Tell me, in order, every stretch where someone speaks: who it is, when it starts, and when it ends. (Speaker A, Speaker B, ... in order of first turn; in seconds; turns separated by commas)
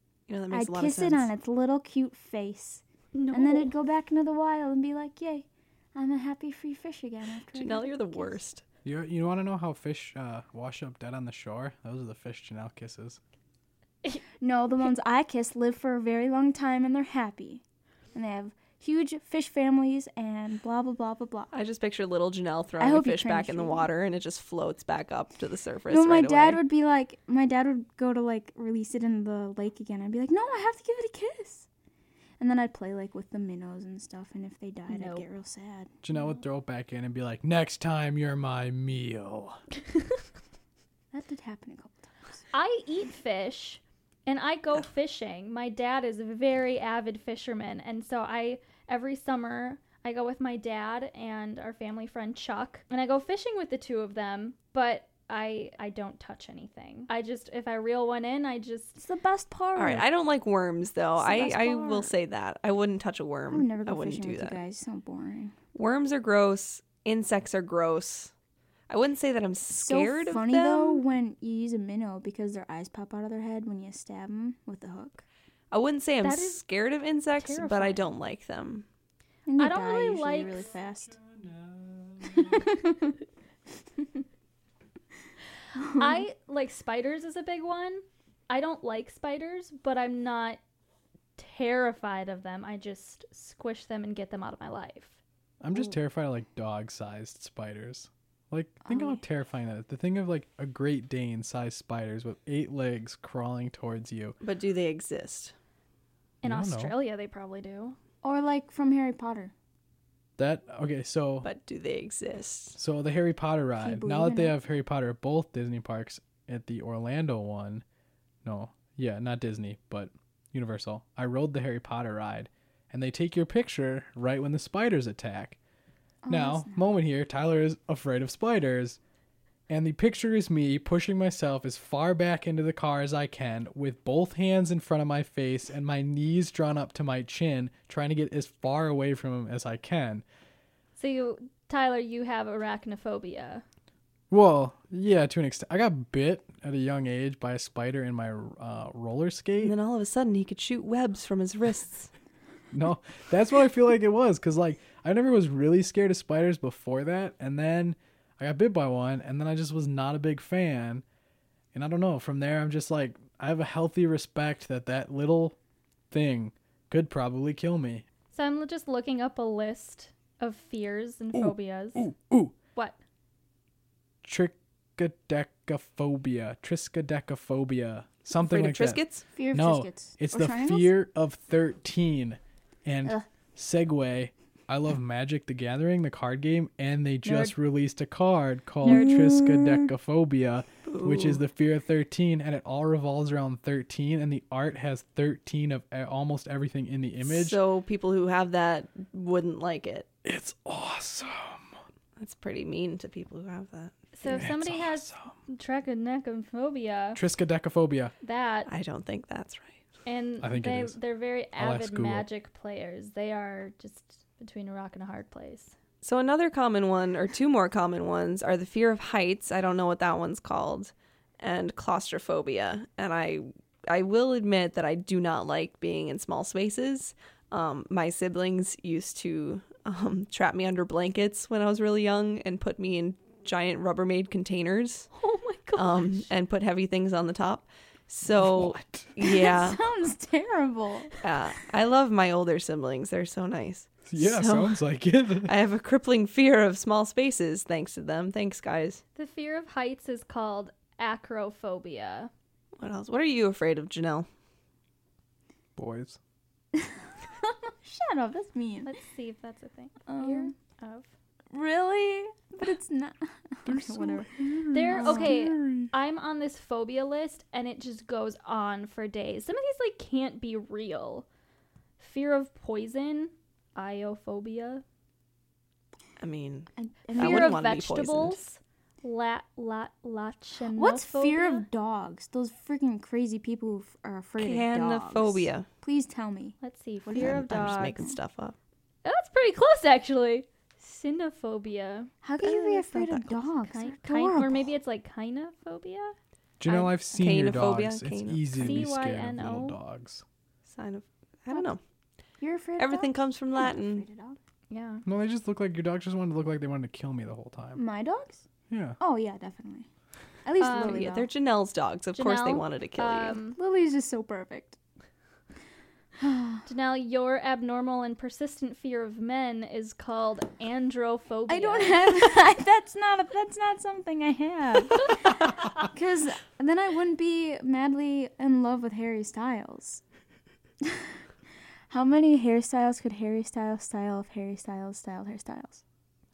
Speaker A: 0.3-1.3, Speaker B: 0.5-8.4, Speaker C: 3.1-3.7, Speaker A: 7.5-8.6, Speaker D: 8.8-13.2, Speaker B: 14.4-21.5, Speaker A: 21.5-26.6, Speaker B: 22.8-23.9, Speaker B: 25.9-31.7, Speaker B: 32.4-35.9, Speaker C: 34.9-35.2, Speaker D: 36.0-39.6, Speaker B: 41.1-42.4, Speaker C: 42.5-59.0, Speaker B: 59.0-60.0, Speaker A: 59.8-64.6, Speaker B: 61.2-62.1, Speaker B: 63.5-65.5, Speaker A: 65.7-68.3, Speaker A: 68.9-71.0, Speaker B: 69.7-75.2, Speaker A: 75.7-78.8, Speaker C: 76.2-76.6, Speaker C: 77.4-78.1, Speaker B: 79.5-81.2, Speaker C: 79.6-80.7, Speaker D: 81.1-82.9, Speaker B: 82.4-83.1, Speaker B: 85.8-86.2, Speaker C: 85.9-90.6, Speaker C: 91.4-95.2, Speaker D: 95.6-104.4, Speaker B: 98.8-99.2, Speaker A: 104.4-105.5, Speaker C: 106.4-108.0, Speaker D: 106.4-106.9, Speaker B: 108.2-109.5, Speaker D: 110.4-111.5, Speaker A: 111.4-112.8, Speaker D: 112.8-117.8, Speaker B: 113.8-114.5, Speaker D: 118.4-125.6, Speaker B: 126.2-126.9, Speaker D: 126.3-129.0, Speaker D: 129.7-140.2, Speaker C: 140.9-143.6, Speaker D: 144.3-149.7, Speaker A: 149.6-152.1, Speaker D: 152.7-161.0, Speaker D: 161.7-165.6, Speaker D: 166.1-168.0, Speaker C: 168.3-172.0, Speaker D: 171.3-172.5, Speaker D: 174.2-197.6, Speaker A: 178.3-179.2, Speaker B: 179.3-180.9, Speaker B: 188.8-189.9, Speaker A: 190.8-191.4, Speaker A: 197.2-200.1, Speaker D: 200.2-201.7, Speaker A: 202.2-204.4, Speaker C: 204.1-207.2, Speaker D: 204.2-205.3, Speaker D: 207.2-208.1, Speaker C: 208.2-208.7, Speaker A: 208.7-209.8, Speaker C: 210.0-215.8, Speaker D: 210.4-211.0, Speaker D: 211.6-212.2, Speaker A: 216.0-235.1, Speaker C: 235.1-236.2, Speaker A: 235.8-239.8, Speaker D: 238.2-239.1, Speaker B: 239.2-241.1, Speaker A: 241.2-244.8, Speaker D: 244.1-245.5, Speaker A: 245.4-249.0, Speaker C: 249.2-252.3, Speaker A: 252.8-254.3, Speaker D: 255.8-256.2, Speaker B: 256.7-258.9, Speaker C: 258.8-261.1, Speaker B: 260.1-260.5, Speaker B: 261.5-264.3, Speaker D: 263.6-265.9, Speaker C: 264.7-271.2, Speaker B: 264.9-265.4, Speaker C: 272.0-274.8, Speaker A: 276.2-278.4, Speaker B: 276.8-277.6, Speaker C: 277.1-281.6, Speaker B: 280.7-288.1, Speaker A: 284.4-285.7, Speaker C: 286.6-288.0, Speaker A: 287.1-288.5, Speaker C: 289.0-296.1, Speaker B: 292.2-294.7, Speaker D: 296.6-300.2, Speaker A: 297.1-298.8, Speaker C: 298.6-299.8, Speaker A: 300.7-301.8, Speaker B: 302.4-304.4, Speaker A: 302.8-304.0, Speaker C: 304.7-305.0, Speaker D: 305.1-307.8, Speaker B: 307.8-308.4, Speaker D: 308.7-309.0, Speaker B: 309.0-309.9, Speaker B: 310.4-311.3, Speaker C: 310.6-311.0, Speaker A: 310.7-313.4, Speaker C: 312.1-313.6, Speaker B: 313.6-314.8, Speaker B: 316.2-316.7, Speaker C: 316.6-322.3, Speaker B: 321.5-330.0, Speaker B: 330.8-331.2, Speaker B: 331.9-335.8